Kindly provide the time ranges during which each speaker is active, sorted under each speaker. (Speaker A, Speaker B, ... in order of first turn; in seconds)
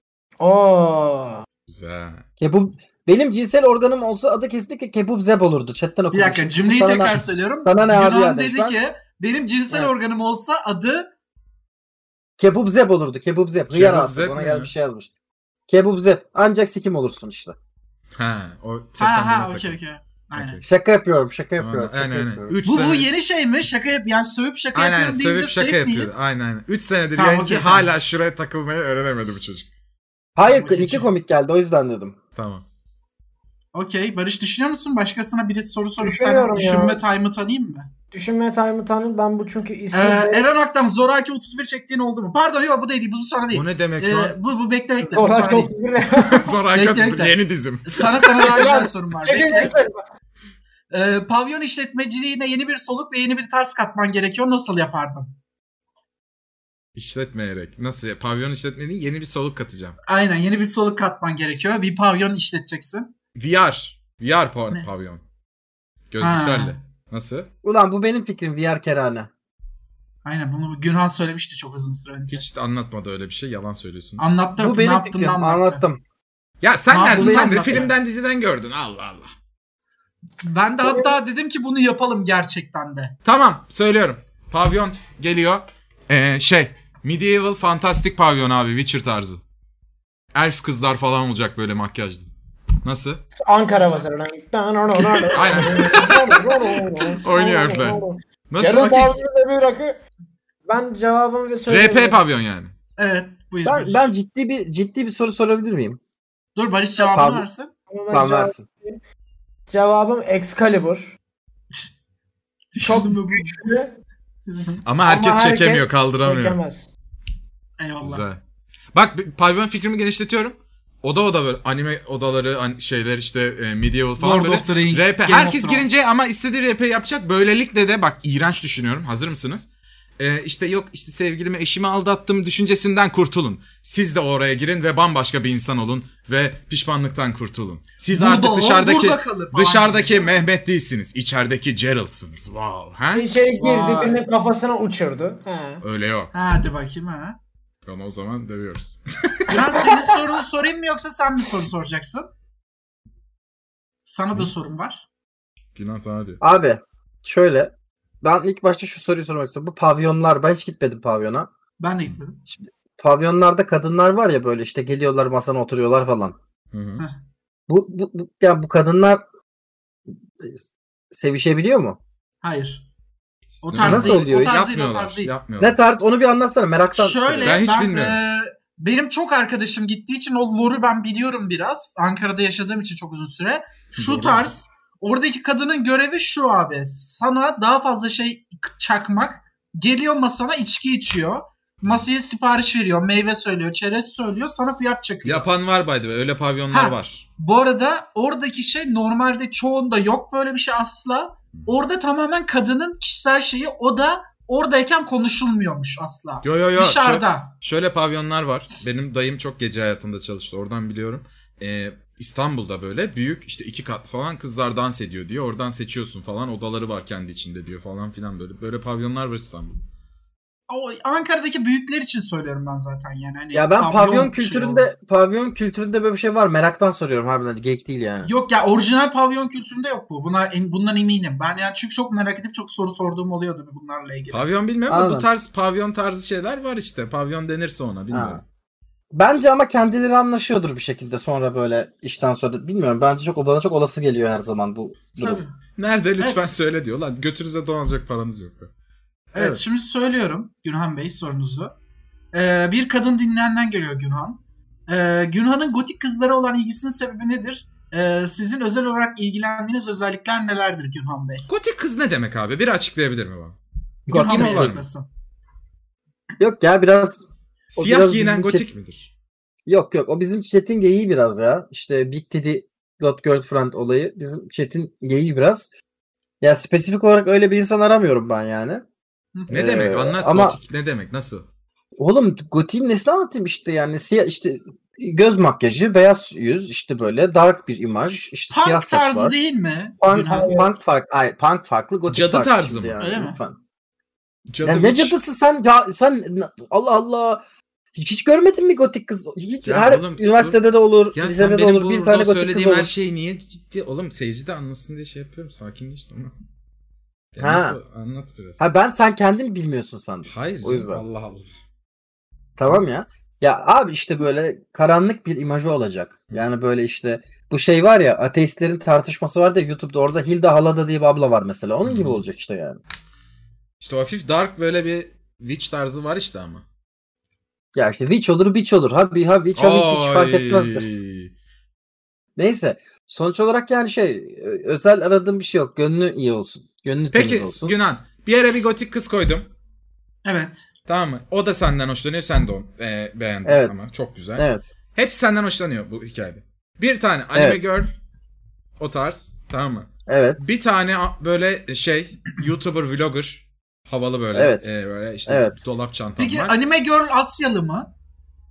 Speaker A: 0.4-1.4, 36.0-37.0, 38.1-40.4, 45.0-46.5, 48.4-50.0, 93.3-100.0, 100.7-102.2, 107.9-109.0, 109.7-111.2, 112.8-113.9, 115.1-116.9, 143.1-145.8, 290.2-290.6
Speaker B: 1.7-2.2, 13.7-14.7, 18.1-19.8, 20.4-20.6, 21.6-23.1, 24.8-29.7, 32.4-32.6, 43.5-44.4, 46.2-48.1, 57.0-60.0, 63.4-65.2, 66.1-67.5, 72.3-74.3, 76.6-79.3, 83.2-89.4, 90.3-92.3, 92.8-93.2, 95.3-96.2, 97.2-99.1, 101.7-102.7, 114.8-116.6, 118.0-118.4, 118.9-129.7, 130.2-143.3, 145.8-146.3, 147.8-150.2, 155.8-156.4, 166.7-167.0, 173.5-175.8, 177.4-178.2, 183.9-184.5, 195.2-197.2, 206.4-219.8, 234.3-238.4, 245.8-248.7, 249.3-249.6, 261.5-263.6, 264.2-264.8, 267.7-269.1, 279.5-281.5, 292.1-292.9, 294.5-295.2, 299.6-300.6, 301.1-306.3, 307.3-308.7, 310.3-311.5, 321.9-322.2, 323.8-326.6, 329.6-331.3, 337.1-339.5, 340.9-347.9, 348.8-356.5
Speaker C: 2.4-8.8, 12.4-15.1, 15.7-17.6, 20.6-22.5, 30.4-32.2, 67.6-69.3, 74.6-76.0, 77.1-77.9, 103.7-106.0, 107.0-107.5, 108.1-108.6, 156.4-161.5, 162.6-166.4, 167.7-169.2, 170.4-172.0, 173.8-174.6, 175.6-177.6, 223.5-228.3, 234.9-235.3, 238.1-238.4, 239.1-245.4, 264.1-264.8, 266.4-267.2, 267.7-268.7, 269.7-275.7, 276.4-278.8, 279.5-280.6, 282.0-289.3, 290.0-293.6, 294.6-297.4, 297.9-302.9, 307.4-307.8, 308.6-311.0, 312.6-322.8, 327.8-330.9, 332.4-337.8, 343.4-343.8, 344.4-344.7, 347.3-347.6, 350.1-350.4, 354.3-354.7, 355.3-355.6
Speaker D: 6.1-11.1, 19.0-20.6, 22.6-26.3, 27.1-27.9, 30.4-31.1, 33.7-37.9, 39.9-45.7, 46.5-49.7, 50.9-55.3, 60.1-63.1, 66.2-66.8, 70.2-72.5, 74.2-75.8, 76.9-78.0, 80.4-83.2, 95.3-96.3, 103.0-104.1, 106.6-107.7, 112.7-113.7, 114.5-114.8, 117.8-118.3, 124.2-125.9, 138.1-140.3, 143.6-144.2, 146.3-147.4, 149.5-152.3, 154.1-155.1, 161.8-162.4, 172.4-172.8, 173.6-175.3, 177.0-195.5, 196.7-207.5, 220.7-224.9, 228.2-234.5, 245.2-245.6, 246.2-246.5, 249.3-251.7, 252.3-261.5, 264.1-265.1, 288.5-290.7, 293.0-293.4, 340.2-340.7, 356.2-357.9